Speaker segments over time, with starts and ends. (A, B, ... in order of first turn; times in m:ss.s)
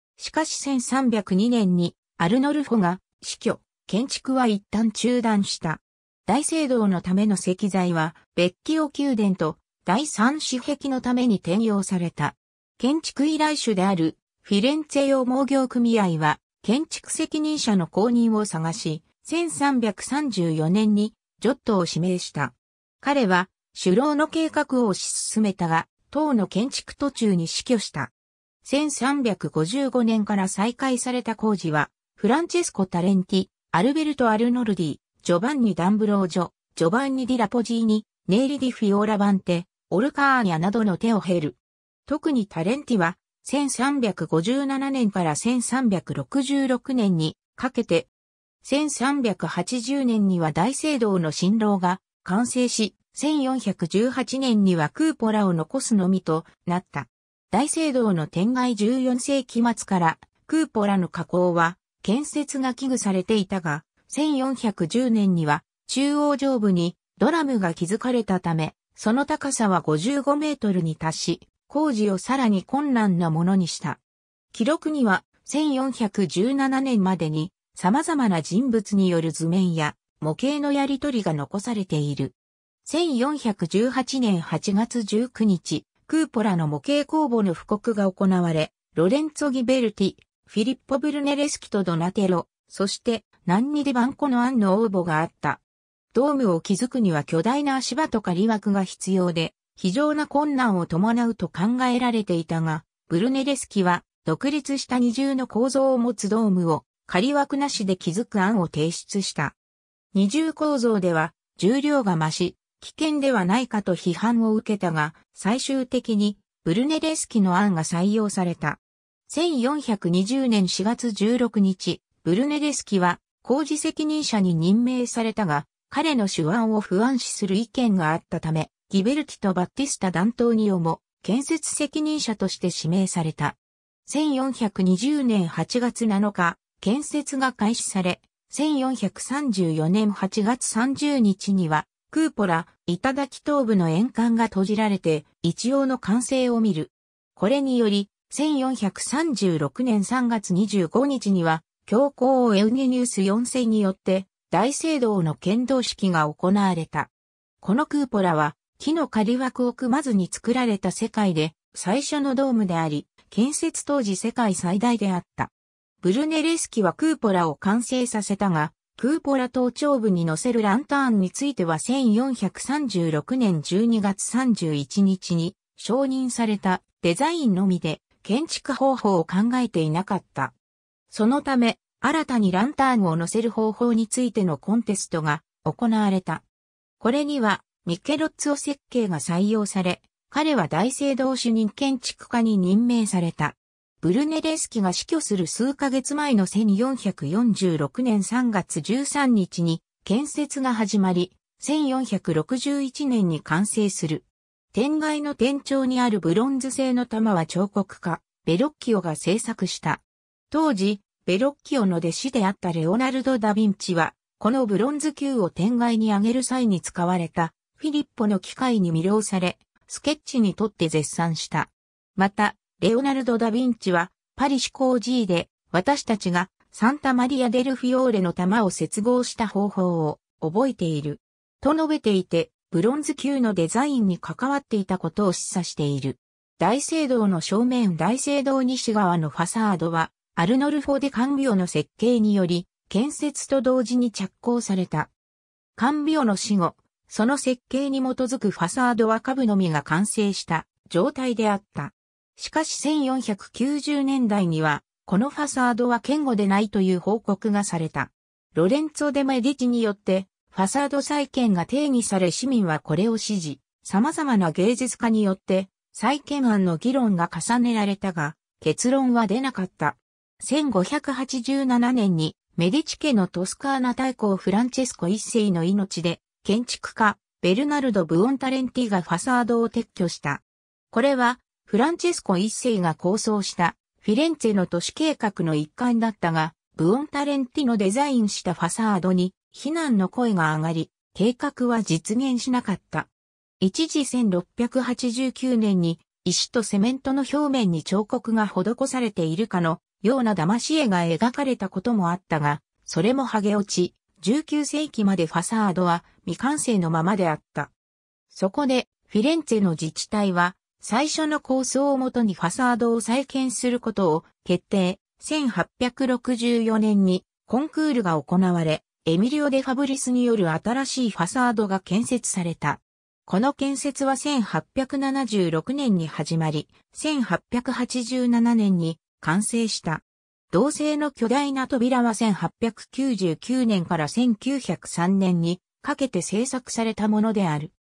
0:00.2-0:28.1 A
0:28.6-0:48.1 A
0:48.6-1:14.0 A
1:14.5-1:35.6 A
1:36.1-1:49.6 A
1:50.1-2:37.1 A
2:37.6-3:00.5 A
3:01.1-3:06.4 A
3:07.0-4:05.1 A
4:05.8-4:53.1 A
4:53.6-5:07.7 A
5:08.3-5:37.7 A